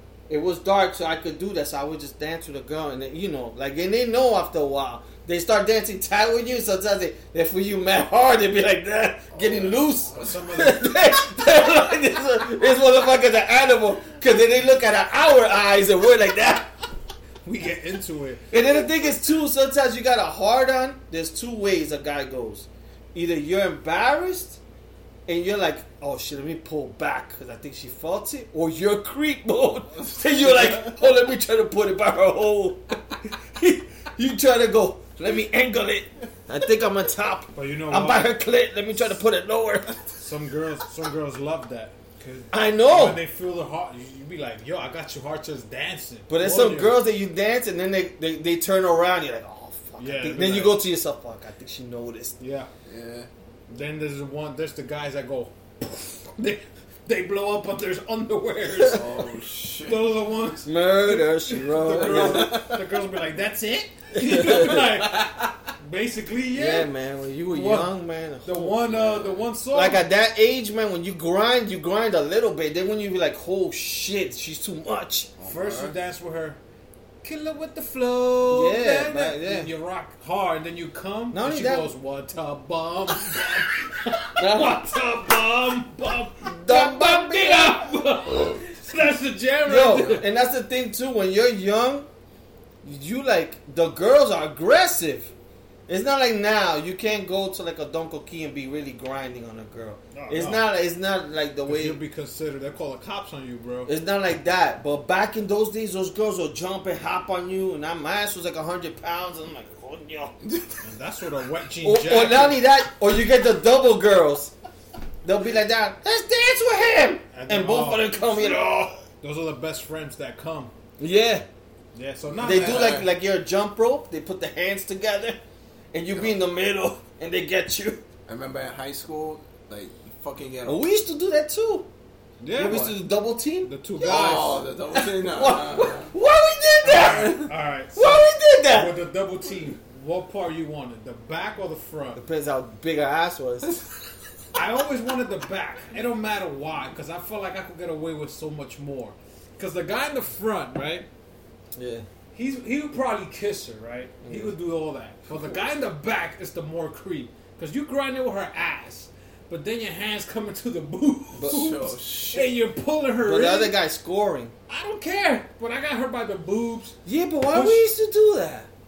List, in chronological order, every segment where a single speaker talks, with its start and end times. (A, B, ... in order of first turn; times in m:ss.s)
0:00.3-0:16.7 A
0:09.3-0:10.4 B
0:10.2-0:11.4 C
0:17.4-0:18.4 C
0:18.5-0:24.6 A
0:25.3-0:40.0 A
0:30.4-0:30.9 B
0:37.5-0:38.3 C
0:40.2-0:47.0 C
0:42.5-0:43.2 A
0:46.3-0:52.4 A
0:50.0-0:50.8 C
0:52.4-0:52.7 C
0:52.8-0:53.3 B
0:53.7-1:06.9 C
0:58.9-1:00.0 B
1:00.6-1:02.6 A
1:02.0-1:02.8 B
1:04.2-1:04.8 A
1:06.6-1:08.8 A
1:07.5-1:07.9 C
1:08.4-1:10.0 C
1:08.9-1:09.4 B
1:09.7-1:15.3 A
1:15.4-1:15.9 B
1:15.4-1:16.6 C
1:17.2-1:30.2 C
1:18.5-1:19.7 A
1:21.3-1:21.9 A
1:24.4-1:25.0 A
1:26.5-1:27.9 A
1:29.6-1:32.1 A
1:29.9-1:30.2 B
1:32.8-1:35.3 A
1:35.9-1:42.0 A
1:40.1-1:40.6 C
1:41.6-1:43.9 C
1:43.8-1:50.4 A
1:50.4-1:50.8 B
1:50.8-1:52.6 C
1:51.8-1:54.5 A
1:55.2-1:59.0 A
1:57.3-2:00.7 C
2:01.0-2:01.5 A
2:01.9-2:03.0 C
2:02.4-2:03.1 B
2:02.4-2:05.4 A
2:05.9-2:08.0 A
2:08.3-2:10.8 B
2:10.6-2:11.9 A
2:12.4-2:12.9 C
2:12.5-2:18.9 A
2:12.6-2:13.0 B
2:13.6-2:14.6 C
2:14.0-2:16.1 B
2:16.8-2:22.2 C
2:16.9-2:17.5 B
2:22.2-2:23.7 A
2:24.5-2:31.1 C
2:31.8-2:32.0 A
2:32.3-2:43.7 C
2:34.2-2:34.5 A
2:41.4-2:42.5 B
2:43.2-2:44.5 A
2:44.7-2:47.0 C
2:47.0-2:48.7 A
2:47.5-2:47.8 C